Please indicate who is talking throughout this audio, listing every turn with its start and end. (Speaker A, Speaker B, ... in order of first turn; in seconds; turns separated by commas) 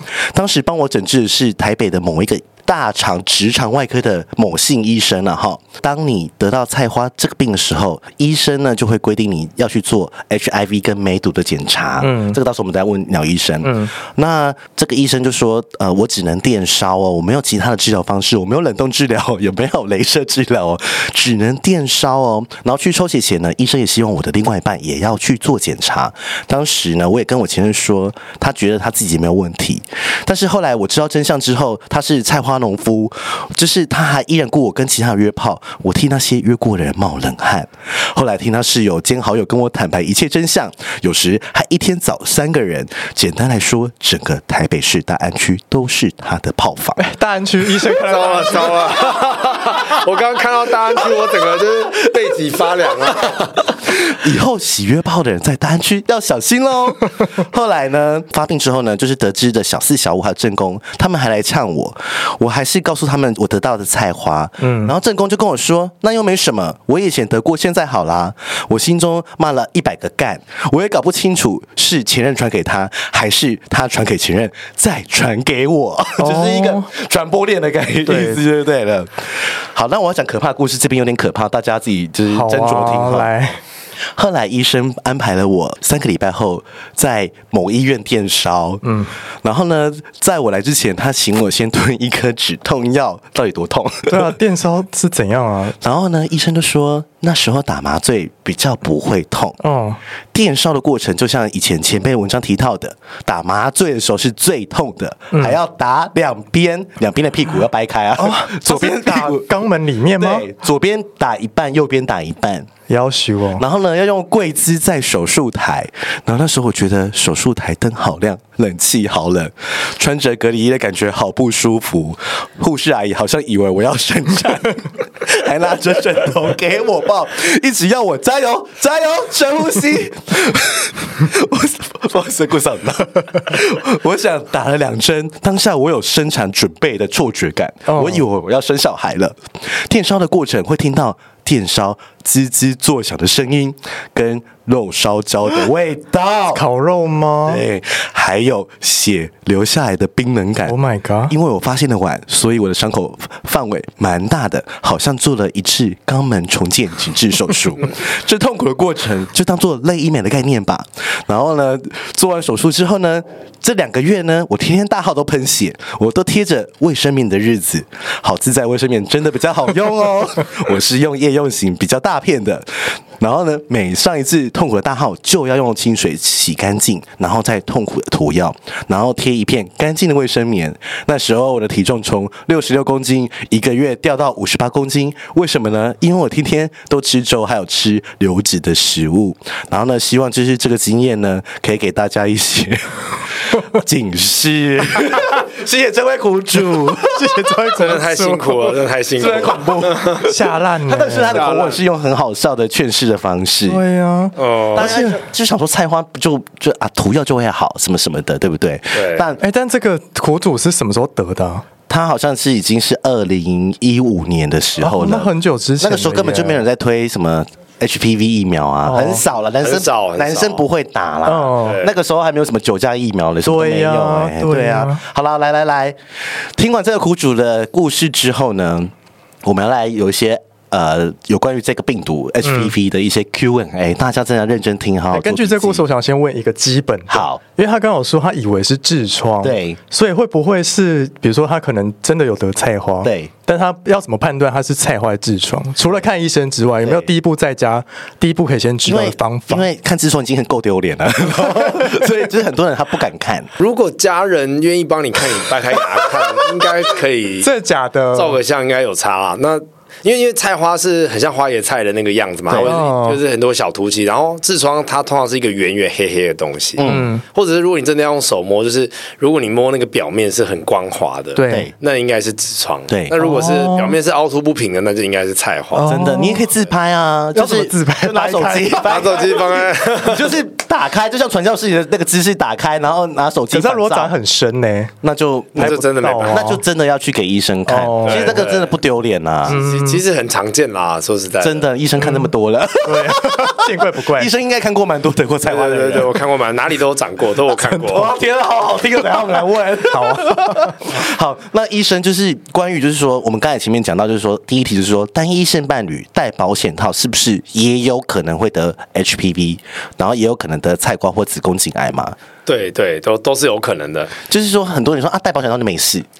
Speaker A: 0.3-47.0, Speaker B: 12.0-12.4, Speaker B: 13.6-13.9, Speaker B: 47.0-49.1, Speaker C: 47.8-53.7, Speaker A: 53.9-83.3, Speaker B: 64.6-65.0, Speaker B: 76.2-76.9, Speaker B: 78.1-78.4, Speaker B: 82.3-83.6, Speaker A: 84.2-88.8, Speaker B: 88.8-89.1, Speaker A: 89.4-94.3, Speaker B: 94.1-95.8, Speaker A: 95.8-99.6, Speaker B: 99.6-100.0, Speaker A: 100.3-109.5, Speaker B: 105.3-105.6, Speaker B: 108.2-110.5, Speaker A: 110.2-112.7, Speaker B: 112.9-113.6, Speaker A: 113.6-146.6, Speaker B: 137.9-138.2, Speaker B: 146.5-147.6, Speaker A: 147.5-150.8, Speaker B: 150.7-151.3, Speaker A: 151.3-192.9, Speaker A: 193.5-197.6, Speaker B: 197.1-198.7, Speaker C: 197.8-200.2, Speaker A: 199.2-203.8, Speaker B: 199.4-201.4, Speaker C: 201.3-201.8, Speaker B: 203.7-205.2, Speaker C: 204.4-204.9, Speaker A: 204.8-209.4, Speaker C: 208.9-209.3, Speaker B: 209.4-211.7, Speaker A: 211.9-226.0, Speaker B: 214.8-216.6, Speaker B: 218.8-219.2, Speaker C: 219.6-220.7, Speaker B: 221.2-221.8, Speaker C: 221.6-221.9, Speaker B: 223.4-225.0, Speaker A: 226.6-228.9, Speaker A: 229.4-235.8, Speaker B: 232.4-232.7, Speaker B: 235.1-249.7, Speaker A: 237.1-237.4, Speaker A: 239.4-239.8, Speaker A: 243.0-243.3, Speaker A: 246.8-247.1, Speaker A: 248.8-253.5, Speaker B: 251.5-251.9, Speaker C: 253.6-257.5, Speaker B: 257.4-258.4, Speaker C: 258.1-275.9, Speaker A: 262.5-262.8, Speaker B: 262.6-263.2, Speaker A: 266.8-267.1, Speaker B: 266.8-267.2, Speaker B: 271.4-271.7, Speaker A: 271.5-271.7, Speaker A: 272.9-273.1, Speaker B: 273.2-274.0, Speaker B: 275.7-276.5, Speaker A: 275.9-284.1, Speaker B: 277.3-278.9, Speaker C: 278.8-280.3, Speaker B: 283.5-284.9, Speaker A: 285.0-289.6, Speaker B: 285.6-286.6, Speaker C: 285.6-286.5, Speaker B: 287.7-288.4, Speaker C: 288.0-288.8, Speaker B: 289.5-290.0, Speaker C: 289.5-291.7, Speaker A: 291.4-296.2, Speaker B: 292.0-292.3, Speaker B: 292.8-294.3, Speaker C: 295.4-298.1, Speaker A: 297.8-312.2, Speaker B: 299.9-300.9, Speaker C: 312.5-314.1, Speaker A: 314.3-316.1